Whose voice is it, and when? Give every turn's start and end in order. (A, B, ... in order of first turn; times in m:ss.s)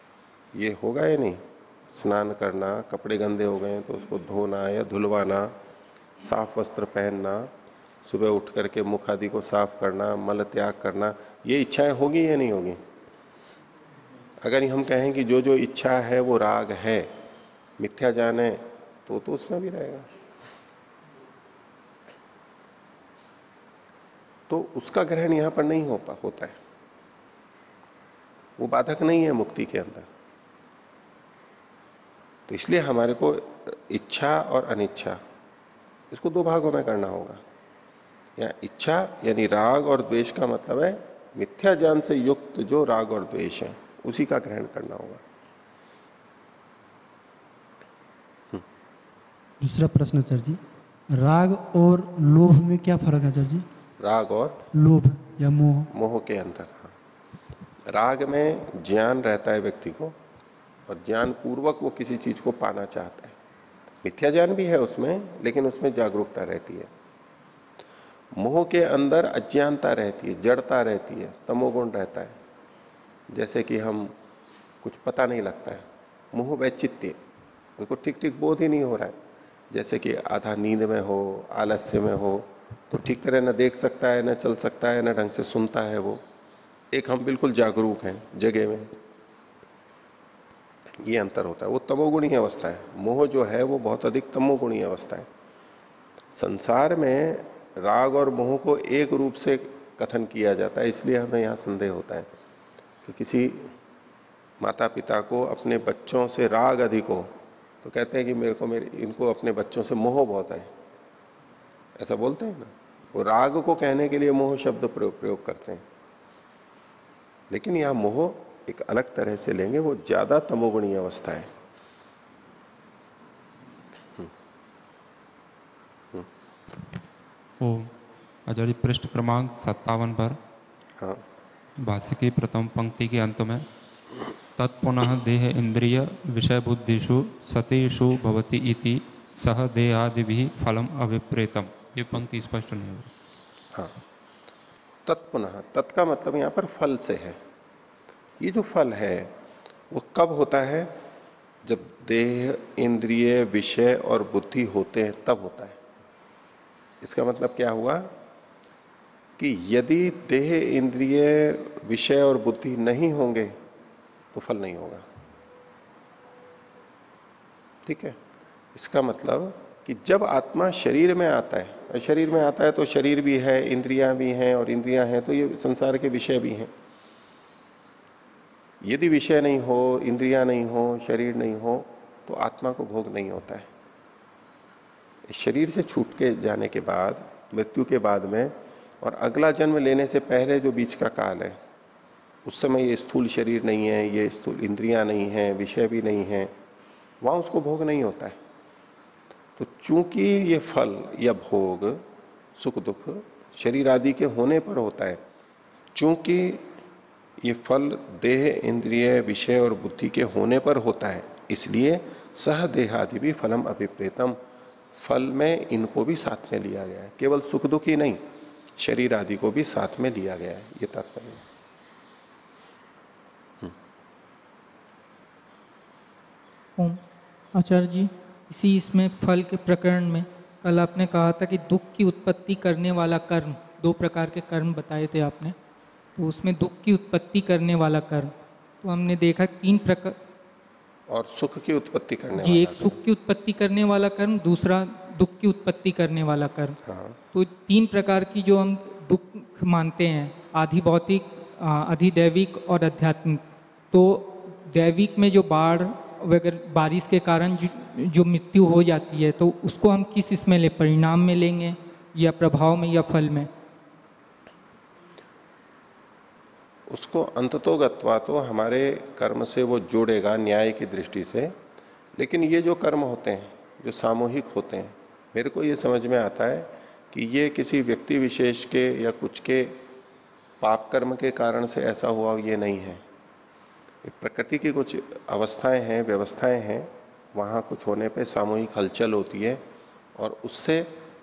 0:00.5-0:05.5 A
0:06.2-0:07.5 A
0:08.0-0:12.8 A
0:14.4-0:17.1 A
0:17.8-0:20.1 A
0:24.5-0:26.6 A
0:28.6-0:30.1 A
0:32.5-0:35.2 A
0:36.1-0:37.4 A
0:38.4-0:45.2 A
0:49.6-0:50.6 B
0:51.1-0:53.6 B
0:54.0-0:54.6 A
0:54.7-0:55.9 B
0:55.9-0:56.9 A
0:57.9-1:00.2 A
1:00.9-1:03.4 A
1:04.0-1:06.9 A
1:08.3-1:12.4 A
1:13.3-1:14.1 A
1:14.8-1:17.2 A
1:17.8-1:19.2 A
1:19.7-1:26.2 A
1:26.9-1:28.9 A
1:31.0-1:35.3 A
1:36.4-1:42.3 A
1:43.0-1:43.7 A
1:44.6-1:47.3 A
1:47.8-1:50.7 A
1:52.0-1:55.8 A
1:57.5-2:01.5 A
2:07.6-2:07.9 C
2:08.5-2:10.4 C
2:11.8-2:13.6 C
2:14.6-2:23.1 C
2:25.0-2:27.4 A
2:28.4-2:29.3 A
2:29.9-2:31.0 A
2:31.6-2:35.8 A
2:37.0-2:38.2 A
2:39.4-2:43.6 A
2:44.3-2:45.0 A
2:47.8-2:48.2 A
2:48.7-2:56.7 A
2:58.8-3:03.7 A
3:05.3-3:11.6 A
3:12.4-3:16.5 A
3:17.2-3:18.4 A
3:19.6-3:22.0 A
3:22.6-3:25.2 A
3:25.9-3:26.6 A
3:27.4-3:34.4 A
3:35.0-3:38.2 A
3:38.8-3:41.4 A
3:47.5-3:55.5 D
3:56.2-4:00.2 D
4:01.1-4:03.0 A
4:02.4-4:06.8 D
4:06.8-4:07.2 A
4:07.3-4:23.5 D
4:26.9-4:31.6 A
4:32.2-4:39.8 A
4:40.6-4:43.0 A
4:44.0-4:49.6 A
4:50.2-4:50.9 A